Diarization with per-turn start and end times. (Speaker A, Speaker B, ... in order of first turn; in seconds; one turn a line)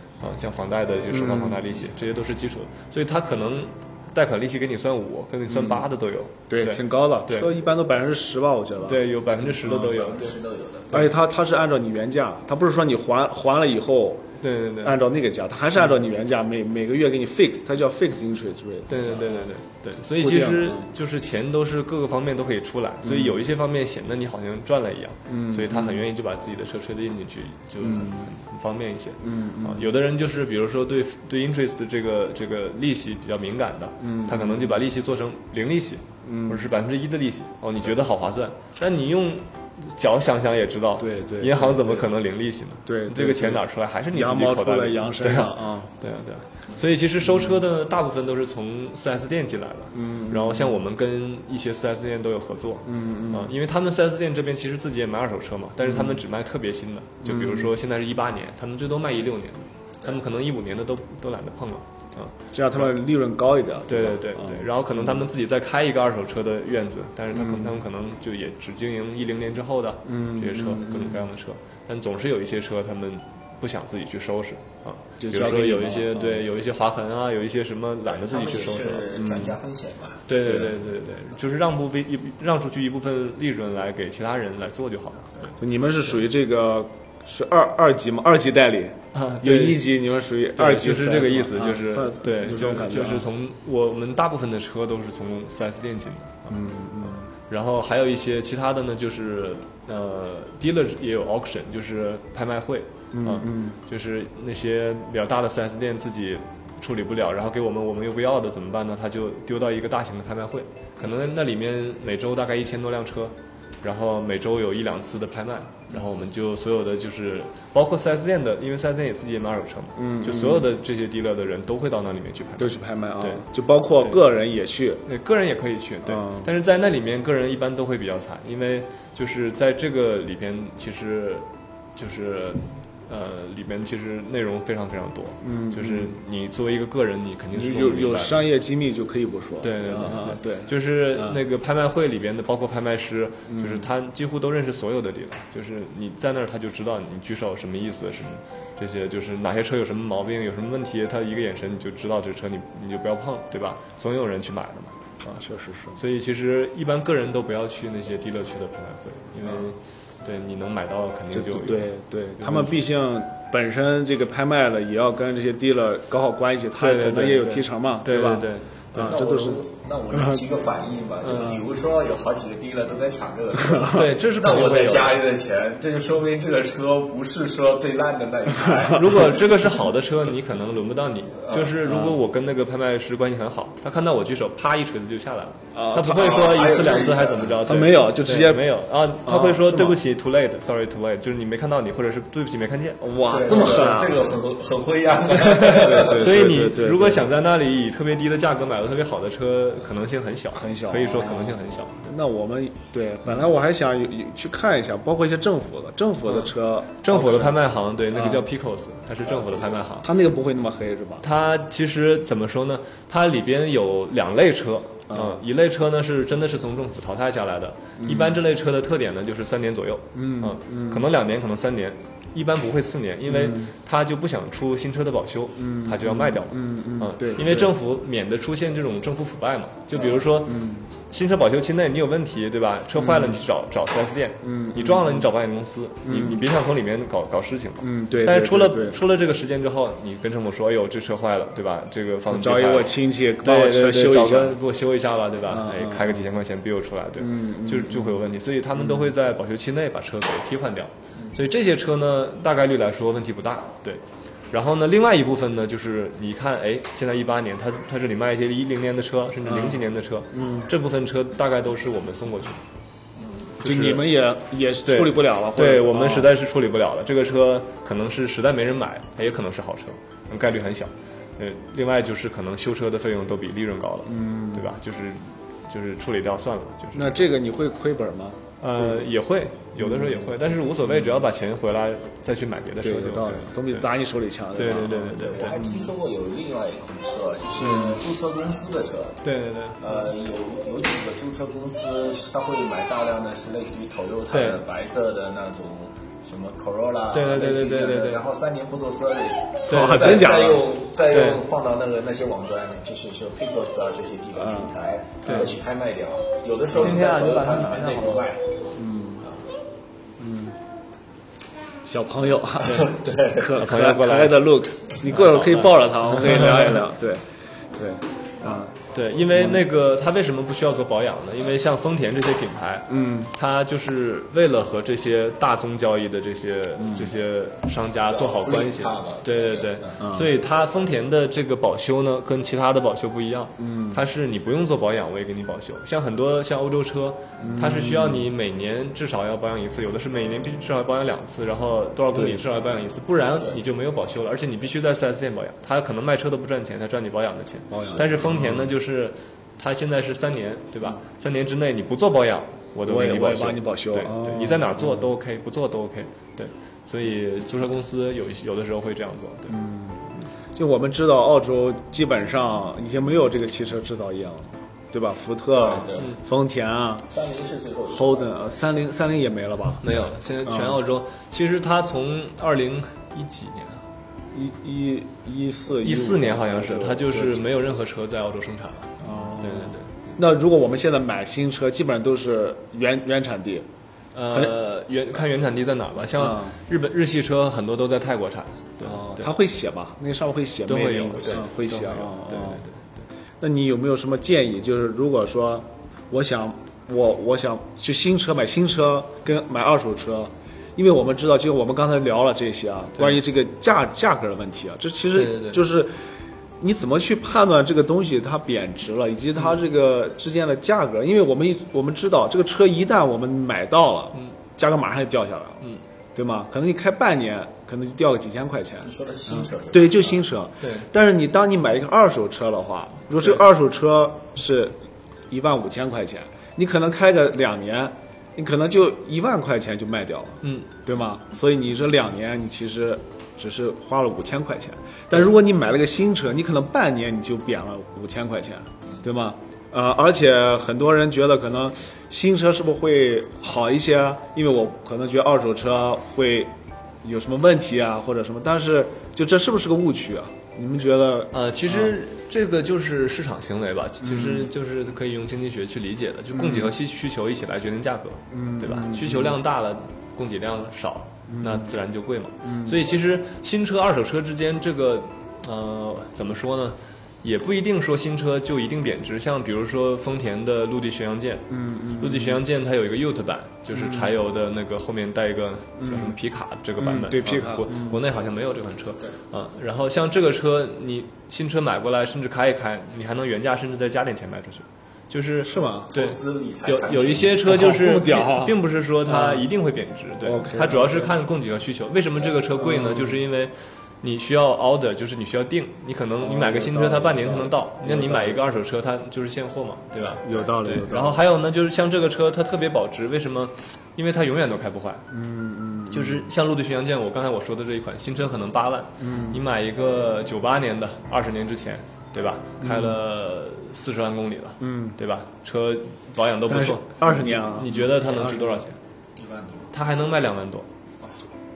Speaker A: 0.2-7.5
Speaker B: 1.1-1.6
Speaker B: 5.5-5.8
Speaker B: 6.5-9.0
Speaker A: 8.8-10.4
Speaker C: 9.7-11.2
Speaker B: 10.9-14.2
Speaker A: 14.4-15.0
Speaker B: 14.8-19.5
Speaker A: 18.9-62.9
Speaker B: 20.2-20.9
Speaker B: 23.0-23.4
Speaker B: 25.3-26.0
Speaker B: 27.8-28.3
Speaker B: 29.2-29.9
Speaker B: 34.0-34.8
Speaker B: 36.2-36.7
Speaker B: 41.0-42.1
Speaker B: 42.9-45.9
Speaker B: 47.2-47.6
Speaker B: 49.9-50.8
Speaker B: 52.8-53.5
Speaker B: 55.8-56.2
Speaker B: 57.2-57.7
Speaker B: 62.5-65.3
Speaker A: 63.9-79.1
Speaker B: 67.3-67.8
Speaker B: 70.0-71.3
Speaker B: 75.2-76.5
Speaker C: 78.1-80.4
Speaker B: 79.1-79.6
Speaker A: 80.3-85.5
Speaker B: 80.5-80.7
Speaker B: 85.6-93.3
Speaker A: 89.1-89.8
Speaker A: 90.5-123.4
Speaker B: 96.5-97.3
Speaker B: 103.1-103.8
Speaker B: 120.0-120.7
Speaker B: 122.6-125.0
Speaker A: 125.0-138.4
Speaker B: 126.0-126.5
Speaker B: 135.4-136.2
Speaker B: 137.5-141.4
Speaker A: 139.6-154.9
Speaker B: 143.5-143.9
Speaker B: 155.2-156.0
Speaker A: 155.9-162.8
Speaker B: 161.3-170.4
Speaker A: 166.8-169.2
Speaker C: 169.0-179.6
Speaker A: 171.2-171.6
Speaker B: 171.3-171.6
Speaker B: 173.6-174.1
Speaker A: 173.9-175.1
Speaker A: 178.9-193.0
Speaker B: 181.8-182.2
Speaker B: 185.7-186.3
Speaker C: 186.0-187.7
Speaker B: 187.6-188.7
Speaker B: 189.2-190.0
Speaker B: 193.0-194.3
Speaker C: 193.3-196.3
Speaker A: 195.3-202.1
Speaker B: 195.6-197.2
Speaker B: 200.5-207.6
Speaker A: 206.3-210.1
Speaker B: 208.1-208.4
Speaker B: 210.0-211.2
Speaker A: 211.2-262.6
Speaker B: 215.1-215.4
Speaker B: 218.0-218.4
Speaker B: 220.1-221.1
Speaker B: 223.3-223.7
Speaker B: 225.6-227.8
Speaker B: 230.0-230.9
Speaker B: 232.9-233.4
Speaker B: 234.4-235.3
Speaker B: 236.0-236.4
Speaker B: 237.8-239.0
Speaker B: 242.3-244.6
Speaker B: 245.5-246.2
Speaker B: 247.2-248.2
Speaker B: 248.8-249.1
Speaker B: 259.4-260.7
Speaker A: 263.6-264.1
Speaker B: 263.6-266.3
Speaker A: 264.8-277.2
Speaker B: 274.1-274.7
Speaker B: 276.9-279.1
Speaker A: 278.6-283.9
Speaker B: 279.8-281.3
Speaker B: 282.8-285.9
Speaker A: 284.5-285.6
Speaker C: 285.2-289.2
Speaker B: 287.6-288.0
Speaker A: 289.2-290.0
Speaker C: 289.8-308.4
Speaker A: 294.3-294.6
Speaker A: 297.1-298.2
Speaker A: 299.7-300.3
Speaker B: 299.7-300.7
Speaker A: 301.1-301.4
Speaker B: 304.4-304.7
Speaker A: 305.2-305.5
Speaker A: 306.7-308.2
Speaker B: 308.7-309.2
Speaker B: 310.2-310.6
Speaker B: 311.8-318.7
Speaker C: 312.6-313.5
Speaker A: 313.6-314.5
Speaker A: 315.0-316.8
Speaker A: 318.9-359.6
Speaker B: 319.3-319.6
Speaker B: 322.9-323.3
Speaker B: 326.8-327.1
Speaker C: 328.0-330.0
Speaker B: 330.0-330.3
Speaker B: 333.6-334.0
Speaker B: 337.4-338.3
Speaker B: 342.1-342.4
Speaker B: 347.7-348.7
Speaker B: 352.9-355.1
Speaker B: 359.5-367.1
Speaker C: 365.6-366.2
Speaker C: 367.1-368.4
Speaker B: 367.9-369.8
Speaker A: 369.8-373.8
Speaker B: 370.4-370.8
Speaker B: 374.3-377.4
Speaker A: 375.8-380.1
Speaker B: 379.0-383.6
Speaker A: 384.1-389.3
Speaker B: 384.3-384.5
Speaker B: 386.2-386.6
Speaker B: 388.8-392.6
Speaker A: 390.6-393.0
Speaker B: 393.4-405.9
Speaker A: 405.1-405.6
Speaker B: 406.6-415.6
Speaker B: 416.1-424.8
Speaker C: 418.8-420.2
Speaker A: 420.6-420.9
Speaker B: 425.3-451.9
Speaker A: 430.4-430.7
Speaker A: 451.3-505.1
Speaker B: 454.0-454.5
Speaker B: 456.3-456.7
Speaker B: 458.3-459.4
Speaker B: 461.3-461.7
Speaker B: 462.4-462.9
Speaker B: 471.5-472.4
Speaker B: 473.7-474.1
Speaker B: 475.8-476.2
Speaker B: 476.8-478.0
Speaker B: 485.4-485.9
Speaker C: 485.9-487.4
Speaker B: 487.4-489.5
Speaker B: 490.2-491.1
Speaker B: 492.6-493.2
Speaker B: 496.2-498.4
Speaker B: 500.2-501.2
Speaker B: 505.1-506.3
Speaker A: 505.9-518.8
Speaker B: 509.0-509.4
Speaker B: 512.6-513.0
Speaker B: 514.6-515.0
Speaker B: 516.4-518.6
Speaker C: 519.2-519.7
Speaker A: 519.7-520.7